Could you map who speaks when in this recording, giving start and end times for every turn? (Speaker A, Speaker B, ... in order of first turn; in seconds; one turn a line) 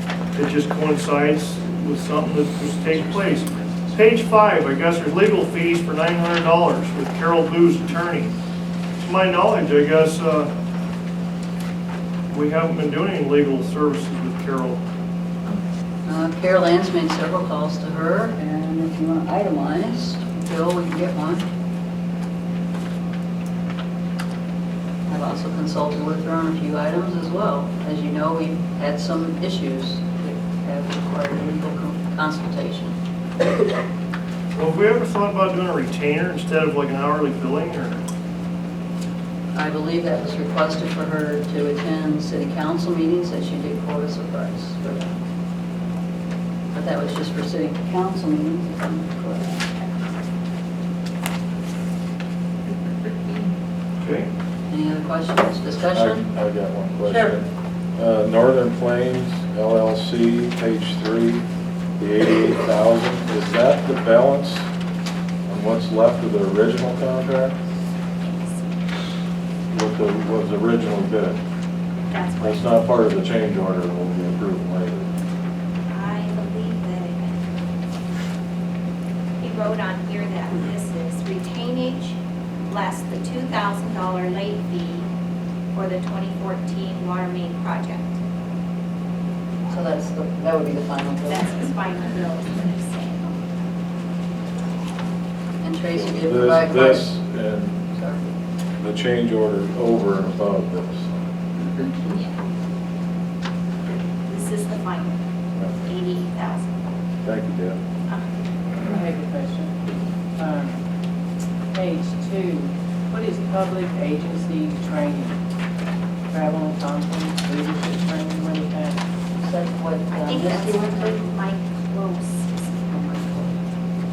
Speaker A: 0.3-8.3
Speaker A: 9.0-10.5
Speaker A: 12.3-14.8
Speaker B: 16.1-21.4
Speaker B: 25.1-33.0
Speaker A: 34.5-38.0
Speaker B: 39.5-45.2
Speaker B: 46.7-49.8
Speaker A: 54.0-54.3
Speaker B: 54.7-56.2
Speaker C: 55.9-61.5
Speaker B: 57.1-57.3
Speaker C: 62.0-64.7
Speaker C: 65.5-67.5
Speaker D: 68.2-68.6
Speaker C: 69.7-71.4
Speaker D: 72.1-72.9
Speaker C: 72.4-75.1
Speaker D: 75.9-77.3
Speaker D: 79.4-85.1
Speaker D: 85.7-88.2
Speaker B: 89.7-91.5
Speaker D: 91.3-93.3
Speaker B: 95.6-97.1
Speaker C: 95.9-97.8
Speaker B: 97.9-98.3
Speaker C: 98.8-101.1
Speaker D: 103.9-105.2
Speaker D: 105.8-106.7
Speaker C: 107.2-107.8
Speaker E: 108.8-109.8
Speaker E: 110.4-110.8
Speaker E: 111.7-115.4
Speaker E: 116.3-119.0
Speaker B: 119.4-121.3
Speaker D: 120.1-122.8
Speaker B: 122.9-123.5